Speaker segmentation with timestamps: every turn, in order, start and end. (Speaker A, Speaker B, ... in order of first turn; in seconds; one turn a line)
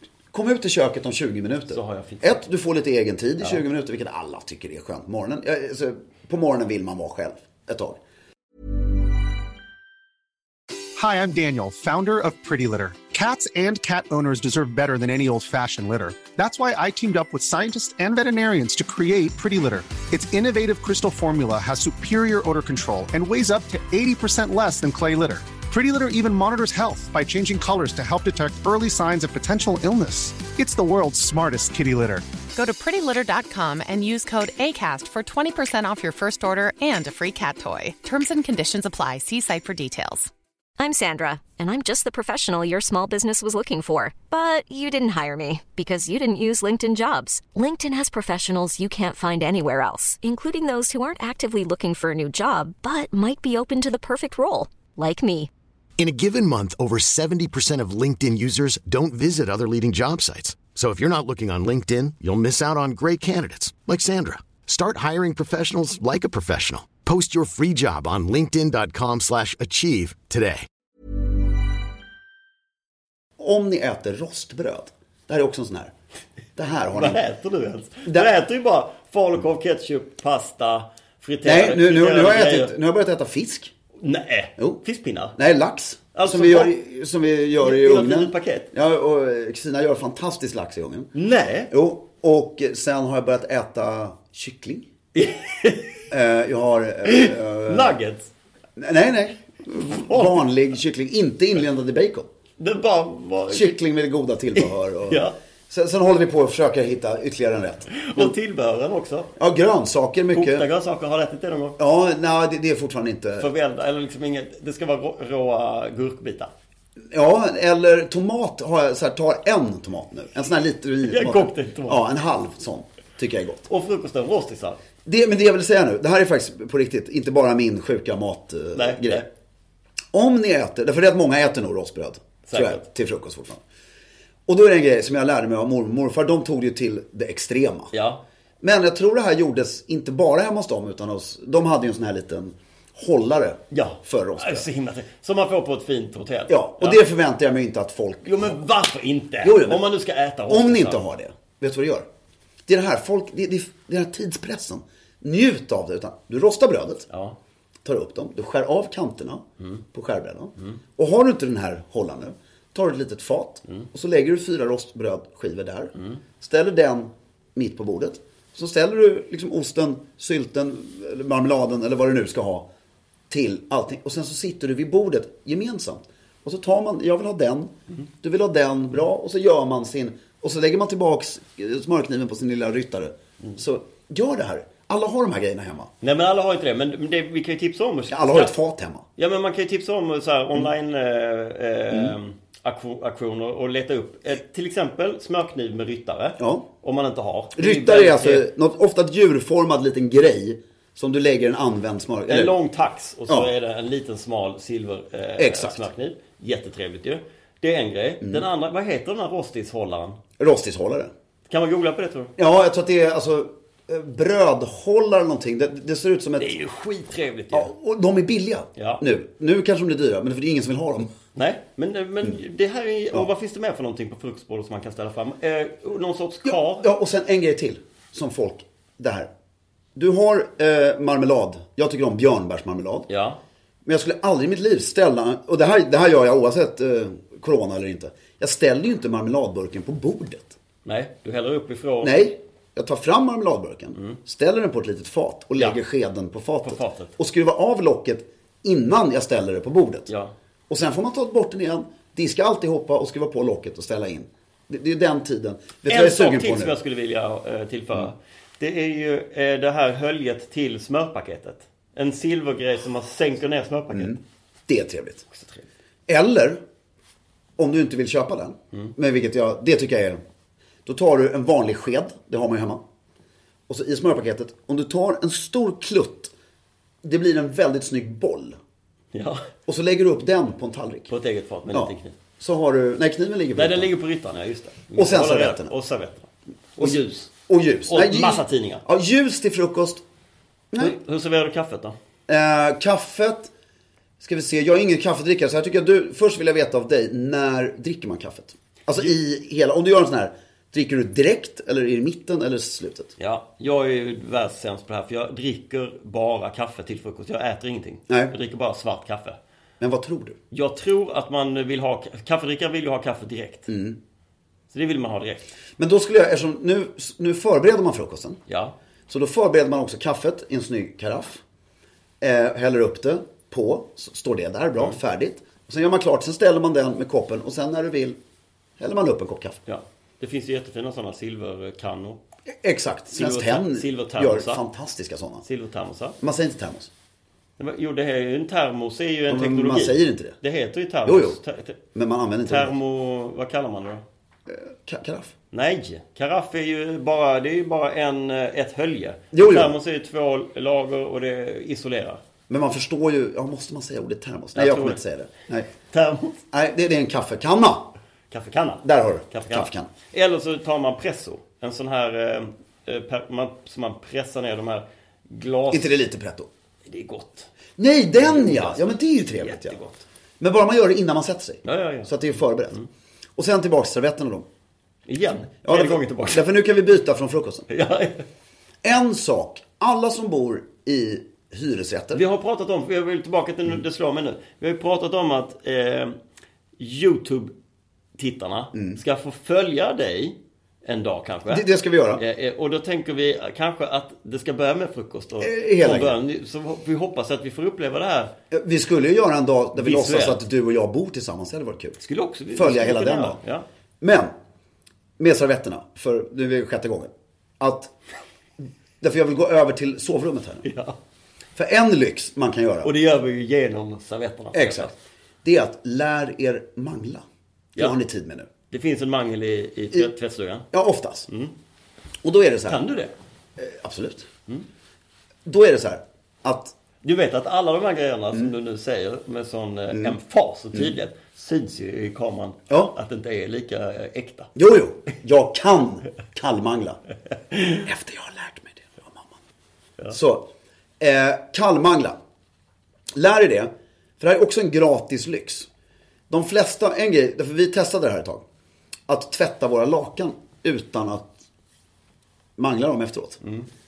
Speaker A: 0.3-8.0
Speaker B: 1.7-2.4
Speaker C: 11.0-32.3
Speaker D: 32.5-40.3
Speaker E: 40.8-55.5
Speaker F: 56.0-70.7
Speaker A: 73.4-75.9
Speaker A: 76.6-77.2
Speaker B: 76.9-82.7
Speaker A: 78.0-78.3
Speaker A: 81.4-83.7
Speaker B: 84.0-85.4
Speaker A: 85.4-91.1
Speaker B: 86.1-86.8
Speaker B: 87.6-88.7
Speaker B: 91.1-91.7
Speaker A: 91.7-94.9
Speaker B: 95.1-96.1
Speaker A: 96.1-98.0
Speaker B: 97.0-98.3
Speaker A: 98.8-102.3
Speaker B: 99.9-100.5
Speaker B: 102.6-103.7
Speaker A: 103.5-108.3
Speaker B: 104.5-105.3
Speaker B: 107.9-109.3
Speaker A: 109.4-110.7
Speaker B: 110.3-111.8
Speaker A: 111.8-113.5
Speaker B: 113.4-116.5
Speaker A: 117.1-123.7
Speaker B: 121.0-122.0
Speaker B: 123.7-124.8
Speaker A: 125.0-129.3
Speaker B: 128.8-129.3
Speaker A: 130.1-133.6
Speaker B: 132.5-132.8
Speaker A: 134.5-137.9
Speaker B: 137.9-138.2
Speaker A: 138.6-144.7
Speaker B: 143.7-147.0
Speaker A: 146.5-148.6
Speaker B: 148.2-151.0
Speaker A: 149.4-149.8
Speaker A: 150.5-152.1
Speaker A: 152.7-157.1
Speaker B: 157.1-157.4
Speaker A: 157.8-172.7
Speaker B: 166.0-166.2
Speaker A: 173.3-185.9
Speaker B: 186.0-188.5
Speaker A: 188.1-189.1
Speaker B: 189.2-198.5
Speaker A: 196.4-196.7
Speaker A: 197.6-202.6
Speaker B: 202.3-210.2
Speaker A: 205.4-205.9
Speaker A: 210.4-211.1
Speaker B: 211.5-212.3
Speaker A: 212.4-216.5
Speaker B: 216.4-217.7
Speaker A: 217.5-221.1
Speaker B: 218.8-219.0
Speaker B: 221.3-226.9
Speaker A: 226.5-229.3
Speaker A: 230.0-233.1
Speaker B: 233.1-233.4
Speaker A: 233.8-240.6
Speaker B: 240.8-242.2
Speaker A: 242.0-250.1
Speaker B: 245.6-245.8
Speaker B: 246.6-247.1
Speaker B: 250.1-250.3
Speaker A: 250.7-256.8
Speaker B: 255.8-264.2
Speaker A: 263.9-265.2
Speaker B: 265.3-265.7
Speaker A: 266.1-266.6
Speaker A: 267.6-270.2
Speaker A: 270.9-272.8
Speaker A: 273.7-276.3
Speaker A: 277.0-278.6
Speaker B: 279.1-279.4
Speaker A: 279.7-281.1
Speaker B: 281.1-282.2
Speaker A: 281.7-283.9
Speaker B: 283.6-287.3
Speaker A: 284.9-285.7
Speaker A: 286.8-290.0
Speaker B: 287.9-288.8
Speaker B: 290.8-292.0
Speaker A: 292.3-293.5
Speaker A: 294.2-303.1
Speaker B: 303.2-309.4
Speaker A: 309.8-310.4
Speaker B: 310.5-313.7
Speaker A: 313.7-314.0
Speaker B: 314.7-315.5
Speaker A: 315.8-318.4
Speaker B: 318.5-318.8
Speaker A: 319.1-321.4
Speaker A: 322.2-328.2
Speaker A: 328.8-329.6
Speaker B: 329.7-332.2
Speaker A: 332.5-335.4
Speaker B: 333.1-334.6
Speaker B: 335.4-336.2
Speaker A: 336.2-336.9
Speaker B: 337.6-341.8
Speaker A: 339.3-340.4
Speaker A: 341.1-341.4
Speaker A: 341.9-342.8
Speaker B: 342.5-344.1
Speaker A: 344.5-345.3
Speaker B: 345.5-352.2
Speaker A: 349.3-349.7
Speaker A: 352.5-355.7
Speaker B: 354.6-355.0
Speaker B: 355.8-356.4
Speaker A: 356.5-357.9
Speaker B: 358.3-366.0
Speaker A: 358.8-359.9
Speaker A: 365.7-366.5
Speaker B: 366.9-367.5
Speaker A: 367.8-369.8
Speaker B: 368.2-370.1
Speaker A: 370.4-372.9
Speaker B: 371.6-372.1
Speaker A: 373.4-374.5
Speaker B: 375.1-376.5
Speaker A: 375.6-377.7
Speaker B: 377.7-378.3
Speaker A: 378.8-382.2
Speaker B: 382.1-386.2
Speaker B: 386.8-387.5
Speaker B: 388.2-398.3
Speaker A: 388.7-389.0
Speaker A: 391.5-392.2
Speaker A: 395.4-396.2
Speaker A: 398.5-402.0
Speaker B: 399.8-400.4
Speaker B: 402.0-403.7
Speaker A: 402.5-403.4
Speaker A: 404.0-404.3
Speaker A: 405.2-407.9
Speaker A: 409.0-410.7
Speaker B: 410.6-411.0
Speaker A: 411.6-412.9
Speaker B: 412.8-414.9
Speaker A: 414.5-414.9
Speaker A: 415.4-417.2
Speaker A: 417.8-418.5
Speaker B: 418.7-420.7
Speaker A: 420.7-421.3
Speaker B: 421.3-421.5
Speaker A: 422.2-422.8
Speaker B: 422.7-423.1
Speaker A: 423.6-424.3
Speaker A: 425.4-426.7
Speaker B: 427.0-434.5
Speaker A: 432.7-432.9
Speaker A: 434.6-437.0
Speaker B: 437.5-437.8
Speaker A: 437.8-439.4
Speaker A: 440.1-440.5
Speaker A: 441.0-442.2
Speaker A: 443.1-445.7
Speaker A: 446.3-448.4
Speaker A: 449.1-451.4
Speaker A: 452.6-453.4
Speaker B: 453.4-453.7